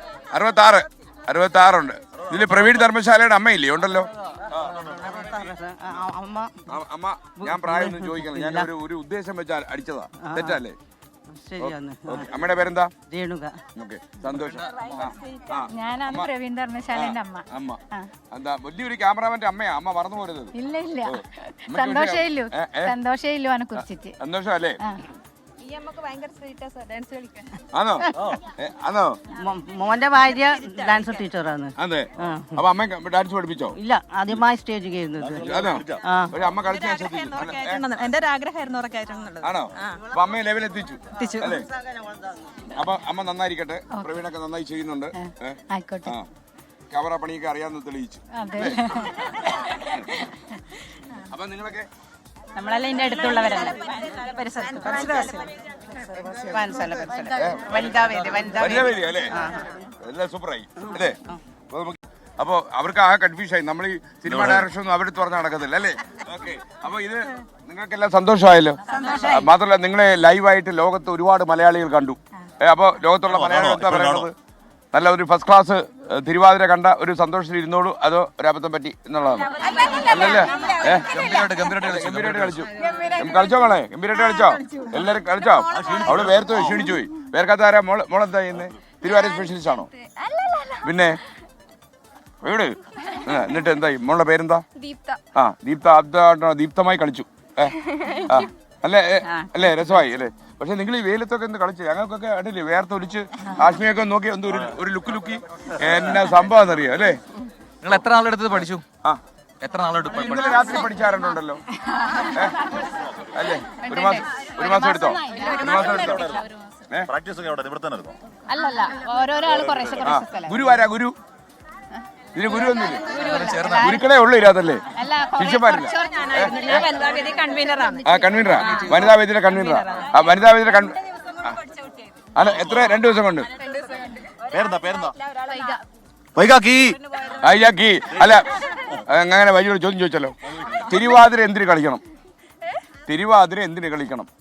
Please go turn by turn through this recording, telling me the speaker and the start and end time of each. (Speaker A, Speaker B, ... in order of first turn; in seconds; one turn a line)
Speaker A: 0.3-4.7
Speaker B: 5.3-6.5
Speaker A: 6.7-10.8
Speaker B: 7.7-8.7
Speaker B: 10.2-10.6
Speaker B: 11.3-12.2
Speaker A: 11.6-12.9
Speaker B: 13.1-13.5
Speaker A: 13.7-16.3
Speaker C: 14.6-14.9
Speaker D: 15.7-18.1
Speaker A: 16.9-23.0
Speaker D: 20.6-24.1
Speaker A: 23.7-24.8
Speaker E: 25.6-27.5
Speaker A: 27.7-29.2
Speaker B: 29.4-32.5
Speaker E: 30.1-31.2
Speaker A: 31.8-33.8
Speaker B: 33.8-35.4
Speaker F: 35.2-36.0
Speaker A: 35.4-37.8
Speaker B: 36.0-36.3
Speaker E: 36.6-40.0
Speaker A: 39.4-41.7
Speaker E: 41.2-41.6
Speaker A: 42.7-46.3
Speaker D: 43.9-44.2
Speaker D: 45.2-46.1
Speaker A: 46.9-49.2
Speaker D: 48.3-49.2
Speaker A: 51.3-51.9
Speaker E: 52.6-55.5
Speaker E: 56.2-58.9
Speaker A: 57.3-61.2
Speaker A: 61.7-74.3
Speaker F: 64.3-64.6
Speaker F: 73.3-74.3
Speaker A: 74.9-79.5
Speaker E: 79.5-81.6
Speaker A: 80.1-81.2
Speaker C: 81.0-82.6
Speaker A: 81.8-89.9
Speaker E: 82.8-83.4
Speaker E: 84.2-85.0
Speaker F: 85.7-86.7
Speaker E: 89.0-90.8
Speaker A: 90.8-91.2
Speaker A: 92.4-94.6
Speaker E: 94.8-95.2
Speaker A: 95.3-107.2
Speaker E: 97.9-98.3
Speaker C: 107.8-108.8
Speaker C: 109.6-110.7
Speaker A: 110.1-111.6
Speaker A: 112.3-112.7
Speaker A: 113.3-116.3
Speaker D: 113.8-116.2
Speaker F: 116.0-116.5
Speaker F: 117.1-118.1
Speaker D: 118.5-120.6
Speaker F: 119.4-120.2
Speaker A: 120.0-121.2
Speaker A: 122.3-126.8
Speaker C: 123.1-124.0
Speaker D: 125.0-125.6
Speaker E: 125.8-130.0
Speaker A: 128.0-131.5
Speaker A: 132.3-133.5
Speaker F: 134.5-135.1
Speaker E: 135.3-135.7
Speaker F: 136.3-137.0
Speaker A: 137.3-138.4
Speaker A: 139.1-142.0
Speaker A: 143.1-144.3